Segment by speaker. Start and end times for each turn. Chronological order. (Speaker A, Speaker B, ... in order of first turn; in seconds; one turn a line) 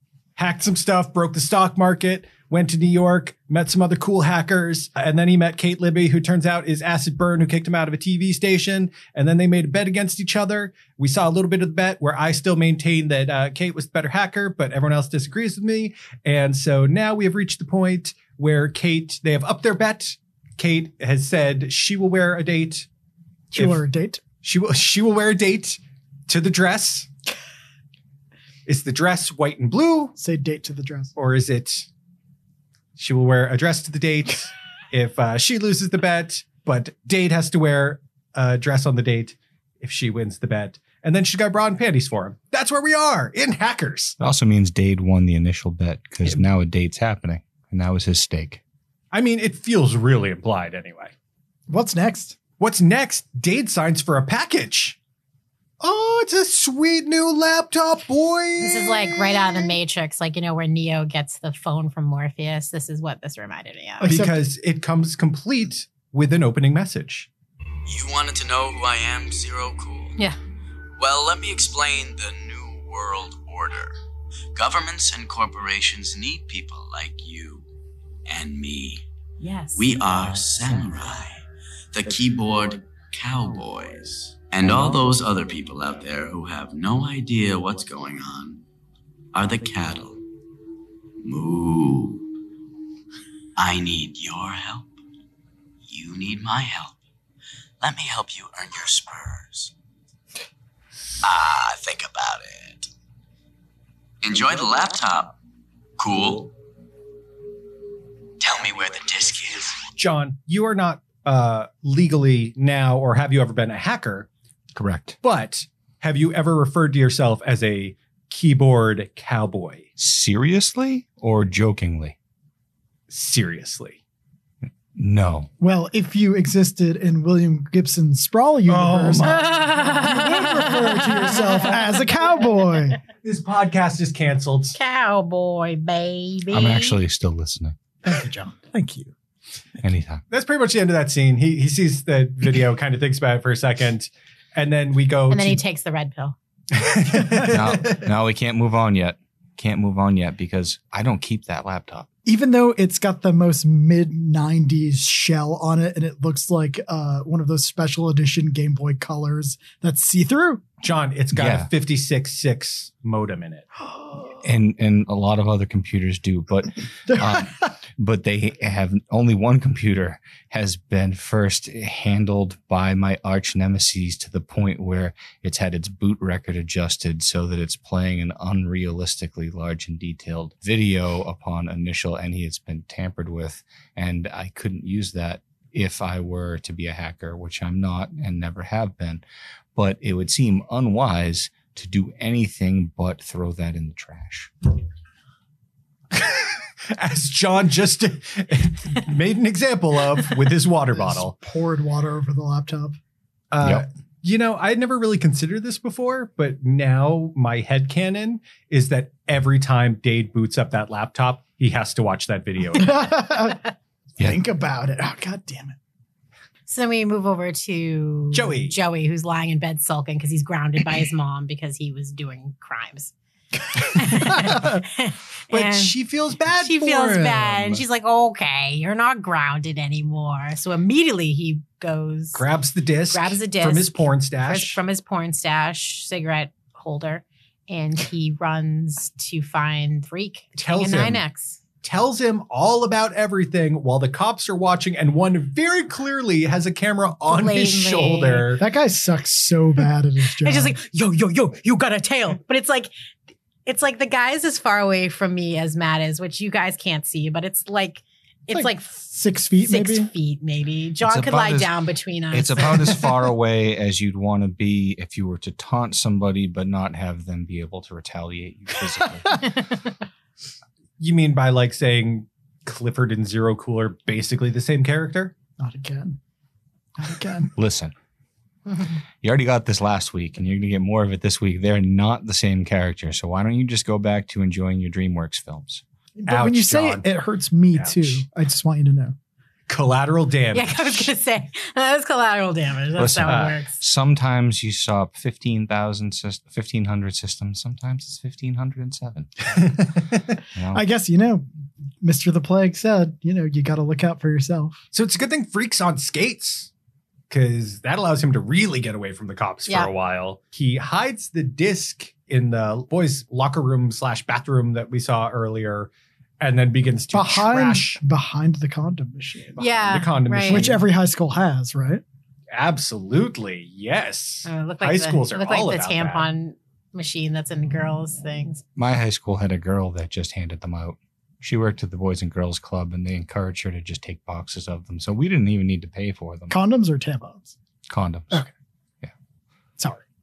Speaker A: 0.3-22.9
Speaker B: 23.5-24.2
Speaker A: 24.4-27.1
Speaker A: 28.6-30.1
Speaker B: 30.1-31.1
Speaker A: 31.1-31.9
Speaker A: 33.0-44.2
Speaker C: 44.2-48.6
Speaker A: 49.1-51.1
Speaker B: 51.7-52.4
Speaker A: 52.6-55.0
Speaker A: 55.8-59.8
Speaker D: 58.6-64.1
Speaker B: 64.0-64.4
Speaker A: 64.0-67.3
Speaker E: 67.8-70.2
Speaker E: 71.0-73.9
Speaker E: 74.5-77.7
Speaker E: 78.3-79.0
Speaker D: 79.4-80.0
Speaker E: 79.7-88.6
Speaker E: 89.3-90.2
Speaker E: 91.2-92.2
Speaker E: 93.6-94.9
Speaker E: 95.9-97.0
Speaker E: 97.8-99.7
Speaker E: 101.2-102.9
Speaker E: 104.2-105.3
Speaker E: 106.0-106.5
Speaker E: 108.4-109.8
Speaker A: 110.0-114.3
Speaker C: 114.8-115.2
Speaker A: 115.2-119.9
Speaker C: 120.0-122.2
Speaker A: 123.1-124.0
Speaker C: 124.9-125.5
Speaker B: 125.6-133.0
Speaker A: 128.7-131.6
Speaker D: 129.3-131.8
Speaker A: 133.2-134.8
Speaker D: 134.7-137.0
Speaker C: 136.5-137.8
Speaker B: 138.0-139.1
Speaker C: 139.8-140.2
Speaker A: 140.3-145.6
Speaker D: 145.3-146.3
Speaker A: 146.7-148.1
Speaker C: 147.5-152.1
Speaker B: 152.2-160.6
Speaker A: 160.8-163.7
Speaker C: 161.3-161.7
Speaker B: 163.8-164.3
Speaker C: 164.4-189.2
Speaker B: 167.1-167.5
Speaker C: 189.7-194.5
Speaker A: 196.1-201.3
Speaker B: 200.9-203.0
Speaker A: 203.5-213.1
Speaker B: 212.7-213.6
Speaker B: 214.2-215.8
Speaker D: 216.7-223.1
Speaker A: 218.3-218.8
Speaker D: 223.9-225.9
Speaker A: 225.5-227.8
Speaker D: 226.6-232.4
Speaker A: 232.3-234.8
Speaker D: 233.1-241.6
Speaker A: 240.6-241.2
Speaker A: 241.8-248.6
Speaker D: 247.2-248.5
Speaker B: 248.6-250.8
Speaker D: 250.4-252.9
Speaker D: 253.7-258.9
Speaker B: 258.5-260.1
Speaker D: 259.6-263.1
Speaker C: 261.0-261.7
Speaker C: 262.3-269.5
Speaker A: 271.0-275.3
Speaker B: 275.6-276.2
Speaker B: 277.0-277.5
Speaker C: 277.6-277.9
Speaker C: 279.2-285.8
Speaker B: 286.2-289.1
Speaker A: 286.3-287.0
Speaker A: 287.7-288.2
Speaker A: 289.7-291.1
Speaker D: 290.5-293.8
Speaker C: 293.0-299.3
Speaker A: 293.2-293.6
Speaker A: 299.5-300.4
Speaker C: 300.5-300.8
Speaker B: 300.7-301.4
Speaker B: 302.0-304.8
Speaker A: 304.9-306.7
Speaker A: 307.3-318.0
Speaker B: 317.1-319.6
Speaker A: 319.6-320.8
Speaker D: 319.6-320.7
Speaker B: 320.4-322.0
Speaker A: 322.5-326.3
Speaker D: 324.4-328.6
Speaker C: 328.8-336.6
Speaker B: 336.5-337.5
Speaker C: 337.9-338.4
Speaker B: 339.8-340.0